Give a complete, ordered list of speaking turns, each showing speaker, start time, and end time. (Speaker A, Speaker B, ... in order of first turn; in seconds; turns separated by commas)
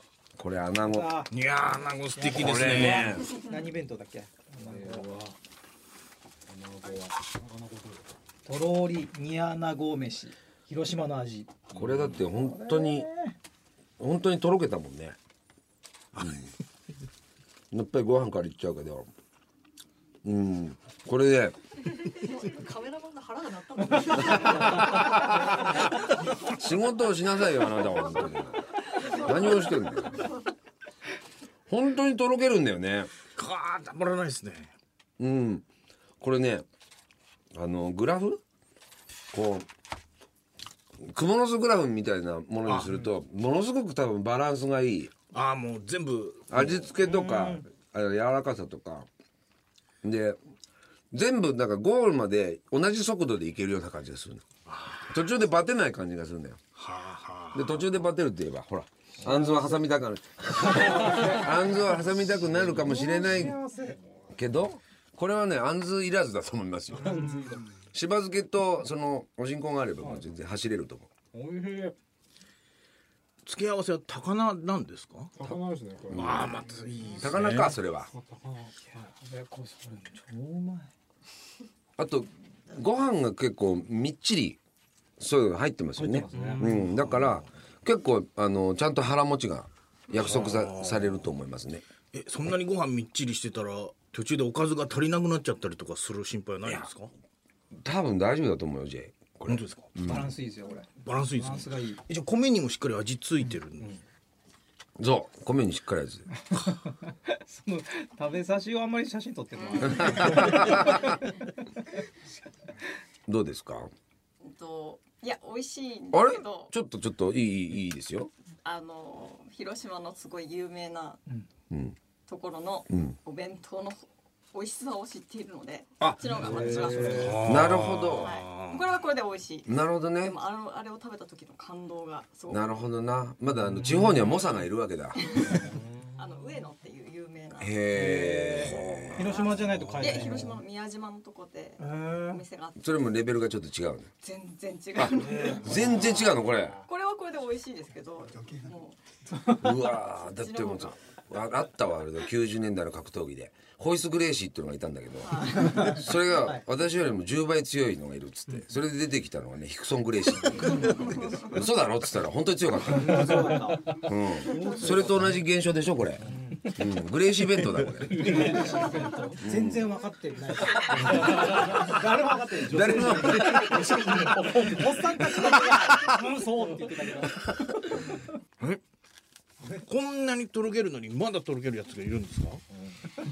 Speaker A: 0.4-1.2, Speaker B: 0.8-1.3, Speaker C: 1.3-3.3, Speaker B: 2.2-5.1, Speaker A: 2.3-3.4, Speaker D: 4.6-5.4, Speaker D: 6.5-8.1, Speaker B: 8.4-11.6, Speaker A: 11.7-13.1, Speaker B: 12.3-13.4, Speaker A: 14.0-15.2, Speaker C: 16.2-16.5, Speaker A: 16.2-16.5, Speaker A: 17.7-19.1, Speaker A: 20.2-21.6, Speaker E: 22.7-23.4, Speaker A: 24.1-30.3, Speaker A: 31.7-33.1, Speaker C: 33.3-34.7, Speaker A: 35.2-35.7, Speaker A: 36.2-36.6, Speaker A: 37.5-38.4, Speaker A: 39.3-39.7, Speaker A: 41.0-45.1, Speaker C: 42.6-43.1, Speaker C: 45.3-47.0, Speaker A: 46.5-49.1, Speaker B: 47.0-47.6, Speaker A: 50.0-50.4, Speaker A: 51.1-54.5, Speaker C: 54.7-55.2, Speaker A: 55.1-56.6, Speaker C: 56.8-57.9, Speaker A: 57.5-63.6, Speaker B: 59.3-59.7, Speaker B: 61.1-61.6, Speaker B: 62.5-64.2, Speaker A: 64.3-67.4, Speaker D: 67.1-67.7, Speaker B: 67.2-67.5, Speaker A: 67.9-71.1, Speaker D: 71.3-71.9, Speaker C: 73.5-75.3, Speaker D: 75.4-76.3, Speaker A: 76.1-78.1, Speaker C: 76.2-77.8, Speaker B: 78.1-80.9, Speaker A: 82.0-84.6, Speaker A: 85.2-91.8, Speaker B: 86.0-86.8, Speaker C: 86.3-87.5, Speaker C: 90.2-91.3, Speaker C: 92.1-97.1, Speaker A: 97.8-100.3, Speaker C: 99.5-100.1, Speaker B: 100.1-102.0, Speaker C: 101.0-104.0, Speaker A: 105.0-106.3, Speaker B: 106.5-110.8, Speaker E: 109.6-111.2, Speaker A: 110.0-111.2, Speaker A: 113.3-113.9, Speaker E: 114.4-116.7, Speaker A: 116.1-118.3, Speaker E: 118.6-121.2, Speaker A: 121.7-122.0, Speaker E: 122.3-127.6, Speaker A: 122.9-123.2, Speaker A: 126.0-128.3, Speaker B: 126.4-127.3, Speaker C: 127.1-128.8, Speaker E: 128.1-132.7, Speaker A: 129.7-130.4, Speaker A: 132.5-135.6, Speaker B: 133.6-134.4, Speaker E: 135.2-137.8, Speaker B: 135.6-136.1, Speaker A: 137.6-139.5, Speaker B: 137.9-140.6, Speaker C: 138.7-140.1, Speaker E: 139.2-143.2, Speaker B: 141.8-142.4, Speaker A: 142.8-144.1, Speaker E: 144.2-149.0, Speaker A: 145.0-146.8, Speaker B: 145.5-145.9, Speaker B: 149.3-149.8, Speaker A: 149.6-168.6, Speaker E: 150.0-150.9, Speaker E: 155.2-156.1, Speaker B: 155.8-156.7, Speaker B: 162.9-163.9, Speaker B: 164.4-165.3, Speaker B: 166.2-166.6, Speaker D: 167.5-169.3, Speaker B: 168.2-177.4, Speaker A: 169.4-169.9, Speaker A: 170.8-171.9, Speaker D: 171.2-171.8, Speaker A: 172.7-174.3, Speaker D: 172.9-175.2, Speaker D: 176.6-176.8, Speaker B: 179.6-179.9, Speaker C: 179.9-182.6